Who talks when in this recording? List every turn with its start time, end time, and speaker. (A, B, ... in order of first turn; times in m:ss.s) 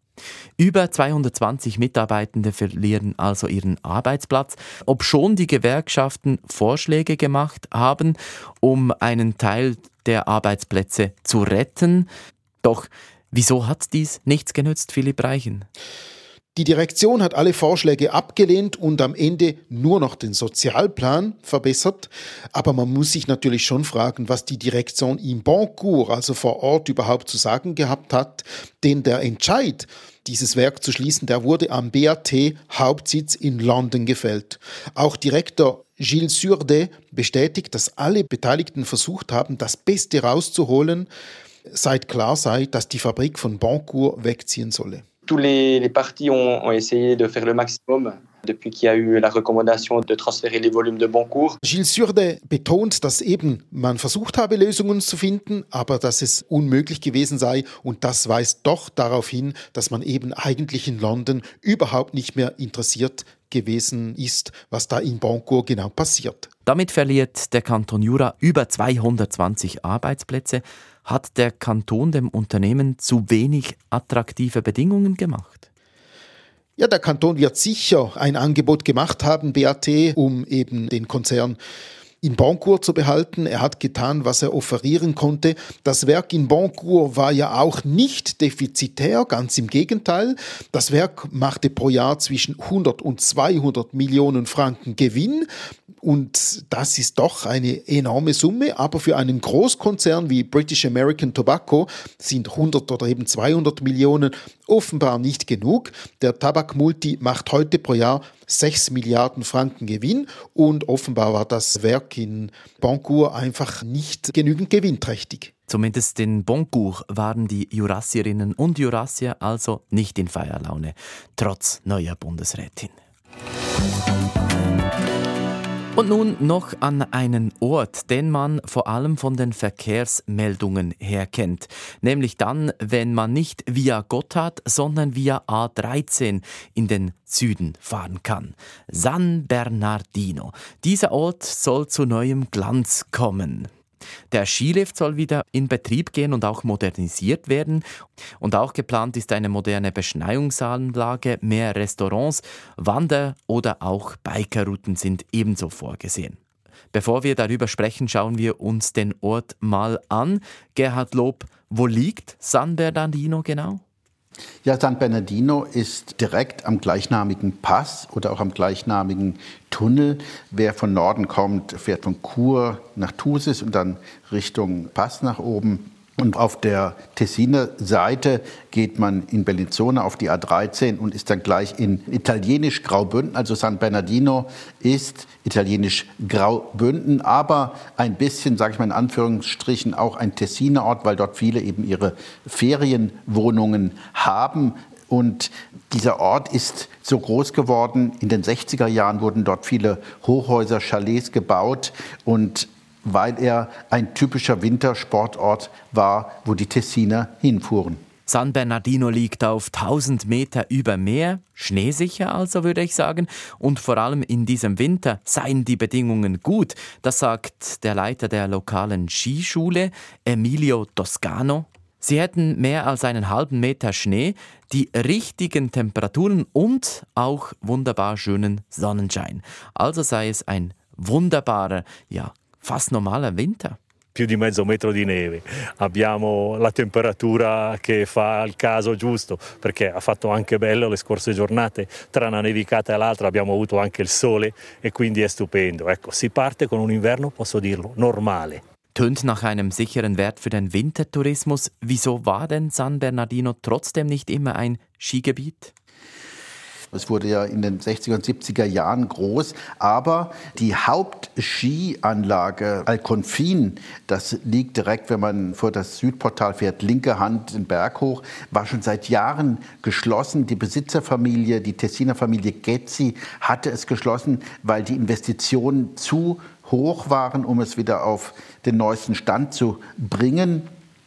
0:00.6-0:12.1 A
0:12.6-0:15.7 A
0:16.5-0:41.1 B
0:41.7-0:45.0 B
0:45.3-0:51.6 C
0:51.6-1:06.5 B
1:06.6-1:15.6 A
1:16.8-1:21.6 B
1:22.2-1:35.5 B
1:36.0-1:55.5 B
1:55.7-2:02.9 A
2:06.0-2:23.7 A
2:24.3-2:27.8 A
2:28.4-2:36.4 A
2:36.9-2:43.8 A
2:44.6-3:28.0 D
3:28.3-3:53.8 A
3:54.1-4:08.6 E
4:08.9-4:15.7 A
4:16.9-4:40.7 D